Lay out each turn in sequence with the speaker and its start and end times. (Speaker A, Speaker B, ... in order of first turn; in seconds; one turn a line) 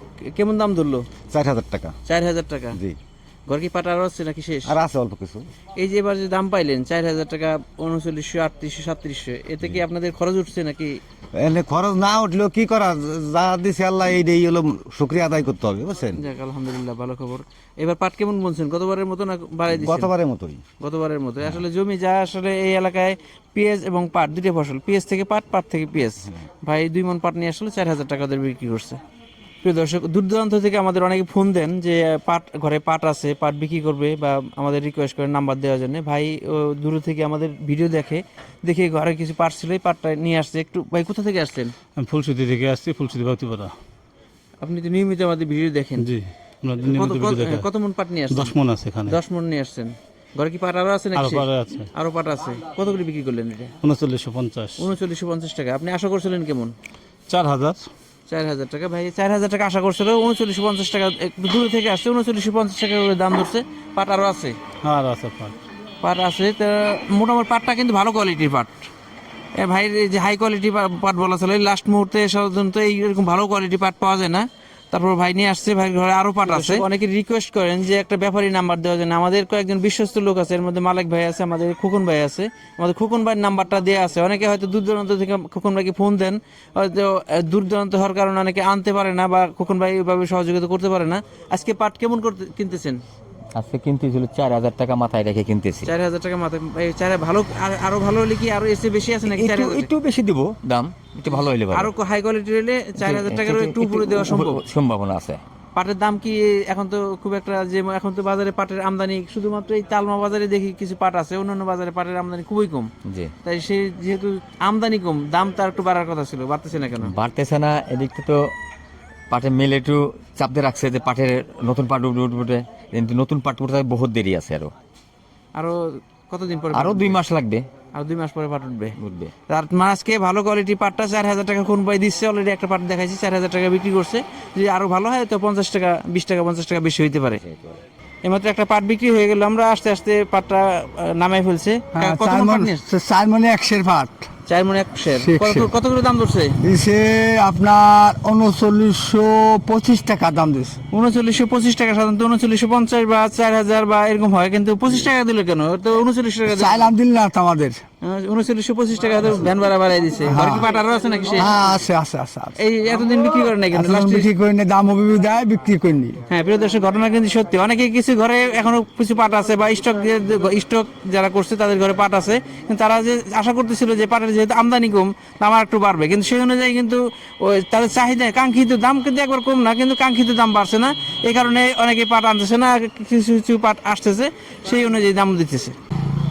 Speaker A: 0.2-1.1
Speaker B: 1.3-1.9
Speaker A: 2.1-2.8
Speaker B: 2.7-3.0
Speaker A: 3.5-4.8
Speaker B: 4.7-5.5
Speaker A: 5.8-11.0
Speaker B: 11.3-16.2
Speaker A: 16.2-20.1
Speaker B: 19.7-20.6
Speaker A: 20.8-29.0
Speaker A: 29.6-41.7
Speaker C: 42.0-43.8
Speaker A: 44.6-46.1
Speaker C: 46.0-47.7
Speaker A: 46.8-48.5
Speaker C: 48.3-49.2
Speaker A: 49.1-53.8
Speaker C: 51.2-51.9
Speaker C: 53.8-54.9
Speaker A: 54.8-56.7
Speaker C: 57.3-57.9
Speaker A: 58.3-64.6
Speaker C: 64.8-65.6
Speaker A: 66.0-68.7
Speaker A: 69.5-93.0
Speaker D: 93.5-95.9
Speaker A: 95.8-99.9
Speaker D: 99.3-101.9
Speaker A: 101.3-104.6
Speaker D: 103.0-105.4
Speaker A: 105.8-112.9
Speaker D: 113.0-113.3
Speaker A: 113.4-117.1
Speaker D: 117.0-118.5
Speaker D: 119.3-124.7
Speaker A: 125.6-127.2
Speaker D: 126.7-127.7
Speaker A: 127.9-129.0
Speaker D: 129.0-129.3
Speaker A: 129.5-137.4
Speaker A: 138.2-142.9
Speaker B: 142.0-142.6
Speaker E: 143.1-144.3
Speaker A: 144.5-146.6
Speaker E: 146.9-150.8
Speaker A: 150.9-156.9
Speaker E: 157.0-157.8
Speaker A: 158.0-161.6
Speaker E: 161.8-162.5
Speaker A: 162.6-164.3
Speaker E: 164.4-166.2
Speaker A: 166.3-185.8